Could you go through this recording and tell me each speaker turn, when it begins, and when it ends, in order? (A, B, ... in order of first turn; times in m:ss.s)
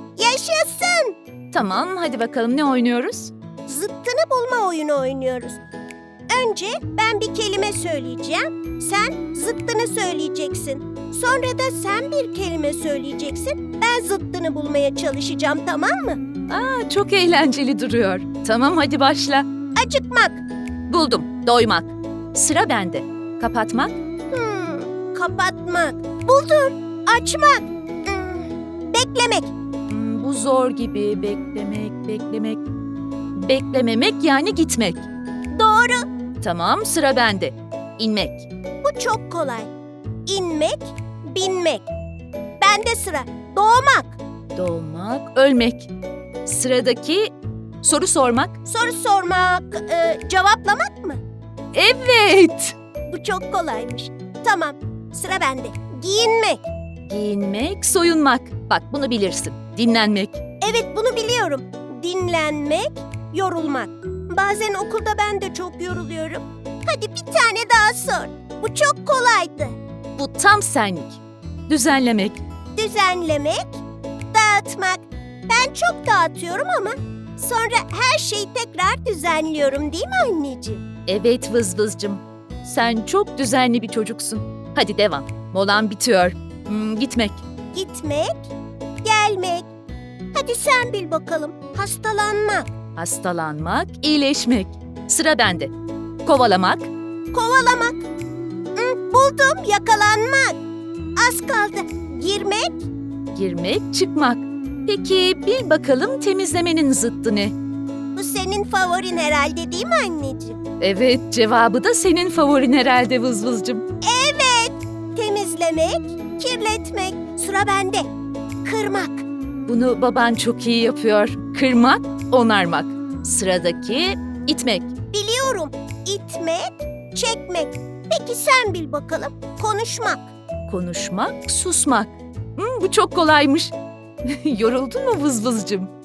0:00.2-0:01.2 A
0:01.5-0:03.3 B
0:03.7-0:05.6 A
0:06.3-0:16.2 A
0:16.5-0:19.4 B
0:19.8-0:20.4 A
0:20.9-0:24.0 B
0:24.3-0:29.5 A
0:29.9-0:32.6 B
0:33.4-0:35.0 B
0:35.5-0:36.1 A
0:36.4-0:38.5 B
0:38.8-0:39.7 A
0:40.3-0:41.9 A
0:42.6-0:44.2 A
0:44.6-0:45.9 B
0:46.4-0:48.6 B
0:48.6-0:51.2 A
0:51.7-0:52.8 B
0:53.1-0:56.6 A
0:57.1-1:00.4 B
1:00.6-1:09.8 A
1:10.2-1:12.4 B
1:12.8-1:13.8 A
1:14.3-1:20.8 A
1:21.1-1:27.4 B
1:27.7-1:28.5 A
1:29.0-1:29.7 A
1:30.3-1:32.7 A
1:33.0-1:35.7 B
1:36.2-1:36.9 B
1:37.3-1:38.1 A
1:38.8-1:40.6 A
1:41.2-1:42.9 A
1:43.3-1:47.5 B
1:48.2-1:50.6 A
1:50.8-1:53.8 B
1:54.0-1:58.1 A
1:58.6-1:59.2 A
1:59.7-2:04.9 B
2:05.1-2:10.3 A
2:10.7-2:13.7 B
2:14.2-2:15.9 B